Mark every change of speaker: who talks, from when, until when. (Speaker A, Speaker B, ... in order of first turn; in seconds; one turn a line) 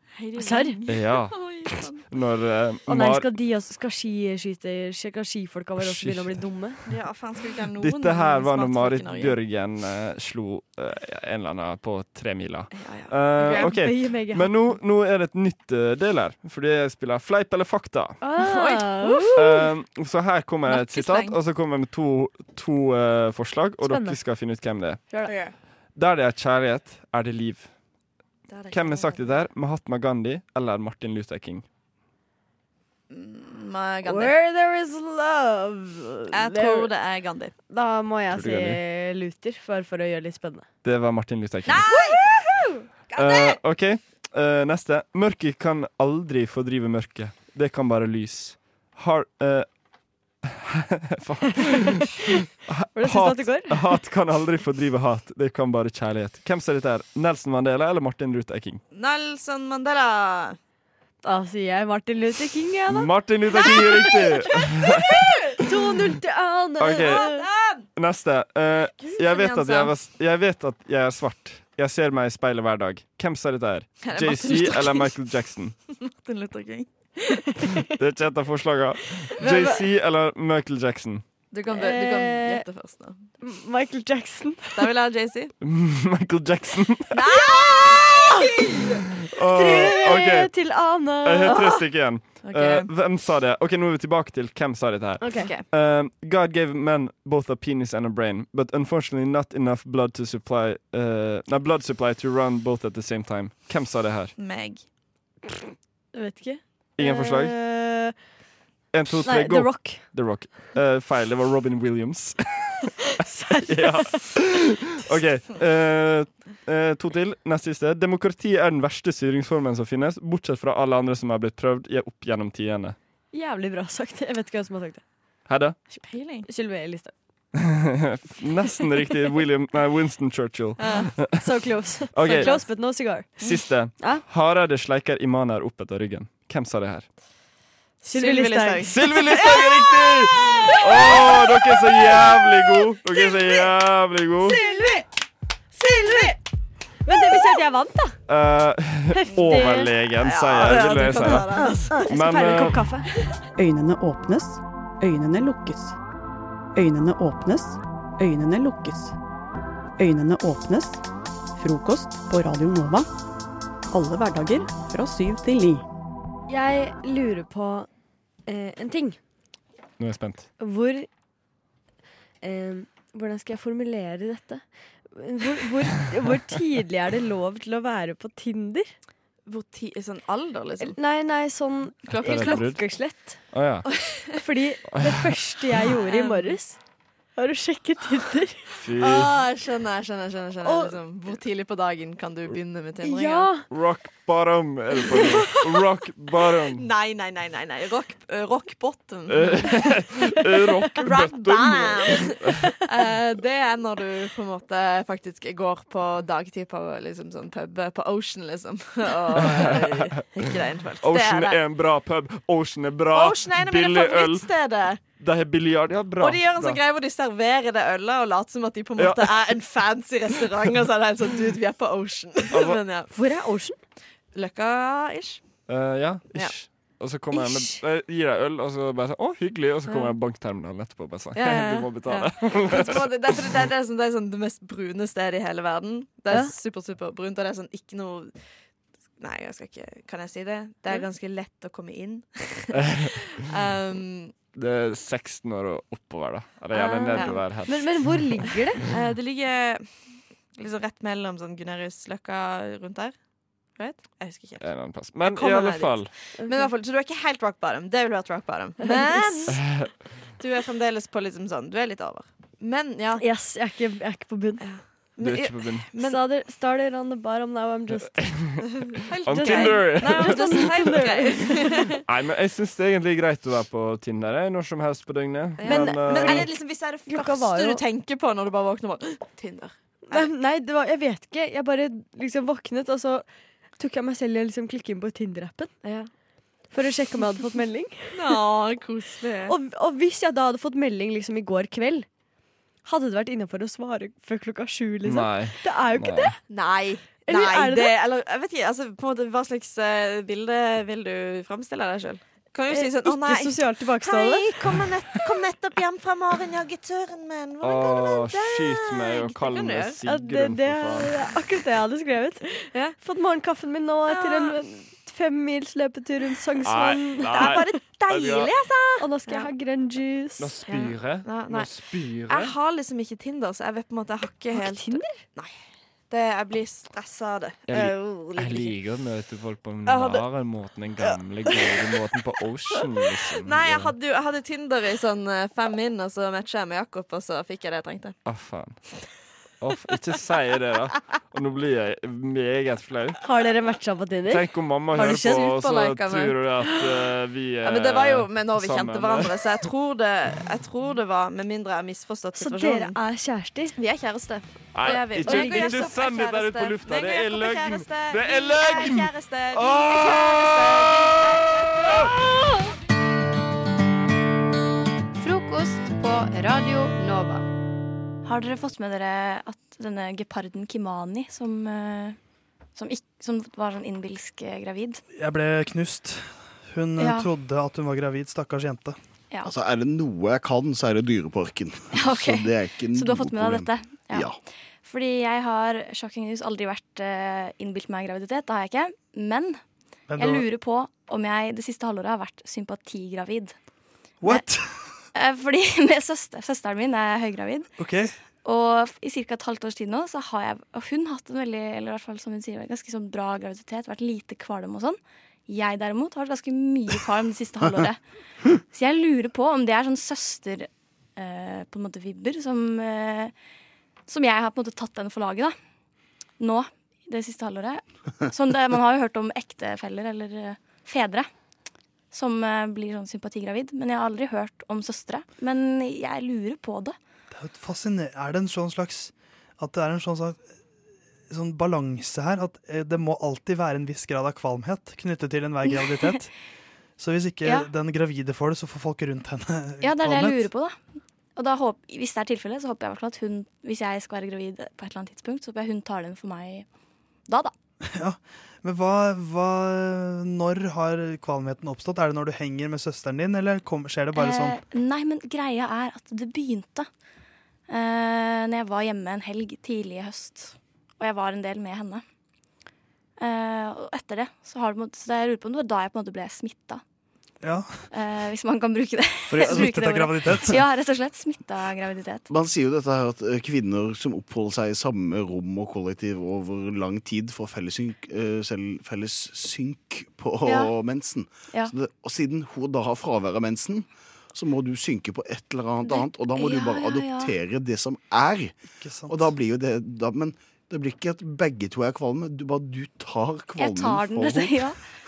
Speaker A: 0.1-2.0
Speaker B: 0.3-0.8
Speaker C: 0.9-1.4
Speaker C: 2.1-3.2
Speaker B: 2.9-6.8
Speaker C: 5.8-6.4
Speaker A: 6.8-9.4
Speaker C: 7.8-18.2
Speaker A: 12.7-13.8
Speaker B: 13.5-14.7
Speaker B: 18.2-19.6
Speaker A: 18.4-19.2
Speaker C: 19.3-25.0
Speaker A: 20.6-21.4
Speaker B: 23.8-24.2
Speaker A: 25.2-25.5
Speaker C: 25.9-27.7
Speaker A: 28.5-29.4
Speaker C: 28.7-31.6
Speaker A: 33.1-34.3
Speaker B: 34.0-36.9
Speaker A: 36.3-37.5
Speaker B: 37.7-40.7
Speaker C: 38.3-38.8
Speaker C: 40.8-42.0
Speaker A: 41.6-43.6
Speaker C: 43.1-49.7
Speaker C: 50.4-58.8
Speaker B: 53.0-53.9
Speaker A: 58.9-60.6
Speaker B: 61.2-63.1
Speaker C: 62.9-65.2
Speaker A: 63.5-65.5
Speaker B: 65.6-67.5
Speaker C: 66.8-67.2
Speaker A: 66.9-67.8
Speaker C: 68.0-75.7
Speaker A: 69.0-69.9
Speaker A: 74.0-75.1
Speaker A: 75.9-77.4
Speaker C: 78.0-81.2
Speaker A: 79.4-79.7
Speaker B: 79.4-79.7
Speaker A: 81.5-83.2
Speaker B: 81.7-82.6
Speaker B: 83.4-84.9
Speaker A: 84.7-85.5
Speaker C: 85.6-87.2
Speaker A: 87.1-88.8
Speaker C: 89.3-90.5
Speaker B: 89.5-91.7
Speaker C: 91.2-104.3
Speaker A: 91.5-91.8
Speaker A: 92.4-92.9
Speaker B: 95.2-95.5
Speaker A: 95.3-95.7
Speaker A: 104.4-104.8
Speaker B: 106.1-108.1
Speaker C: 107.0-107.5
Speaker C: 108.9-112.7
Speaker B: 109.2-110.1
Speaker B: 113.2-114.2
Speaker C: 113.6-123.0
Speaker B: 123.3-125.0
Speaker C: 125.5-125.8
Speaker A: 125.9-126.5
Speaker B: 126.5-127.1
Speaker C: 127.6-131.4
Speaker A: 130.8-131.1
Speaker B: 131.2-134.2
Speaker C: 132.1-132.6
Speaker A: 132.2-132.6
Speaker C: 133.4-137.1
Speaker B: 138.0-139.1
Speaker A: 138.1-141.5
Speaker C: 138.9-144.6
Speaker A: 143.1-143.7
Speaker A: 144.4-145.0
Speaker A: 145.8-146.3
Speaker B: 146.0-146.3
Speaker B: 147.0-148.2
Speaker C: 148.3-151.5
Speaker B: 149.1-149.9
Speaker A: 150.2-152.1
Speaker B: 151.1-153.1
Speaker C: 152.1-152.8
Speaker D: 153.6-155.9
Speaker D: 156.7-159.1
Speaker D: 160.0-161.0
Speaker D: 161.6-163.1
Speaker D: 163.9-165.8
Speaker B: 166.5-167.9
Speaker B: 168.4-169.2
Speaker C: 170.0-170.5
Speaker B: 170.6-171.1
Speaker B: 172.4-178.9
Speaker A: 179.4-181.0
Speaker B: 180.8-183.4
Speaker A: 182.1-182.7
Speaker C: 182.1-182.8
Speaker C: 183.5-183.9
Speaker A: 183.8-184.4
Speaker B: 184.4-186.8
Speaker C: 184.9-185.3
Speaker A: 186.0-186.6
Speaker B: 187.3-188.6
Speaker C: 188.8-189.4
Speaker A: 189.0-193.5
Speaker B: 190.6-191.0
Speaker B: 193.0-193.7
Speaker C: 193.7-196.9
Speaker A: 195.1-195.8
Speaker A: 196.6-200.0
Speaker C: 199.3-202.7
Speaker A: 200.9-211.6
Speaker C: 209.3-210.4
Speaker C: 211.0-214.5
Speaker A: 213.1-215.0
Speaker C: 215.2-216.8
Speaker A: 216.2-223.1
Speaker C: 219.0-219.5
Speaker C: 222.5-222.8
Speaker B: 223.1-223.8
Speaker A: 224.3-225.4
Speaker C: 225.7-233.3
Speaker B: 227.3-227.7
Speaker A: 229.9-230.1
Speaker A: 231.3-238.3
Speaker A: 239.2-244.3
Speaker C: 242.8-243.1
Speaker C: 244.5-248.1
Speaker B: 246.7-248.8
Speaker A: 247.1-247.5
Speaker A: 248.8-253.1
Speaker A: 253.8-254.6
Speaker C: 254.6-256.1
Speaker A: 255.2-259.6
Speaker B: 256.4-256.7
Speaker B: 258.8-259.5
Speaker C: 259.5-259.9
Speaker A: 260.4-263.2
Speaker B: 263.2-264.6
Speaker A: 264.6-266.2
Speaker C: 265.2-265.9
Speaker B: 266.0-268.3
Speaker C: 268.1-268.6
Speaker A: 268.8-272.0
Speaker C: 269.2-271.5
Speaker B: 269.3-271.8
Speaker C: 272.0-276.5
Speaker A: 275.6-280.3
Speaker B: 275.6-277.8
Speaker B: 280.1-283.2
Speaker B: 283.8-285.7
Speaker A: 285.8-286.1
Speaker B: 286.7-288.4
Speaker A: 288.1-289.5
Speaker B: 289.5-292.1
Speaker B: 292.8-296.3
Speaker C: 295.0-296.3
Speaker A: 296.5-309.9
Speaker B: 297.2-297.9
Speaker B: 302.7-304.5
Speaker C: 307.6-311.2
Speaker B: 310.0-312.5
Speaker A: 312.5-313.0
Speaker B: 313.0-317.6
Speaker A: 314.1-314.5
Speaker C: 316.6-318.5
Speaker A: 317.3-319.5
Speaker B: 319.0-320.6
Speaker C: 320.4-322.5
Speaker A: 320.6-321.7
Speaker A: 322.2-325.5
Speaker B: 324.5-325.2
Speaker A: 326.1-328.7
Speaker C: 327.7-333.9
Speaker A: 329.8-330.2
Speaker A: 331.5-331.9
Speaker A: 333.4-338.1
Speaker C: 338.2-338.8
Speaker C: 339.6-343.2
Speaker B: 343.2-345.5
Speaker C: 344.3-349.4
Speaker A: 344.9-346.9
Speaker A: 347.6-353.0
Speaker B: 352.4-353.8
Speaker A: 353.8-362.1
Speaker C: 354.7-362.1
Speaker B: 355.2-355.9
Speaker E: 368.2-372.2
Speaker E: 372.8-375.0
Speaker F: 375.2-378.9
Speaker E: 377.0-377.3
Speaker G: 379.4-384.4
Speaker E: 381.9-384.3
Speaker E: 384.8-389.6
Speaker F: 390.1-390.4
Speaker E: 390.2-393.5
Speaker F: 394.2-394.7
Speaker E: 395.1-397.7
Speaker F: 397.8-398.1
Speaker E: 398.4-408.0
Speaker E: 408.7-413.3
Speaker E: 414.1-415.5
Speaker E: 416.4-421.3
Speaker E: 422.1-426.9
Speaker F: 427.3-430.4
Speaker F: 431.3-436.3
Speaker F: 437.0-440.4
Speaker E: 439.8-440.8
Speaker E: 441.4-446.6
Speaker E: 447.3-447.5
Speaker F: 447.9-454.6
Speaker E: 454.1-456.9
Speaker E: 457.7-462.0
Speaker E: 463.2-466.8
Speaker F: 467.4-467.7
Speaker E: 467.9-472.3
Speaker F: 469.3-470.6
Speaker G: 472.3-488.5
Speaker E: 480.4-480.7
Speaker E: 485.9-487.3
Speaker F: 488.8-489.2
Speaker G: 489.1-494.6
Speaker E: 493.6-494.8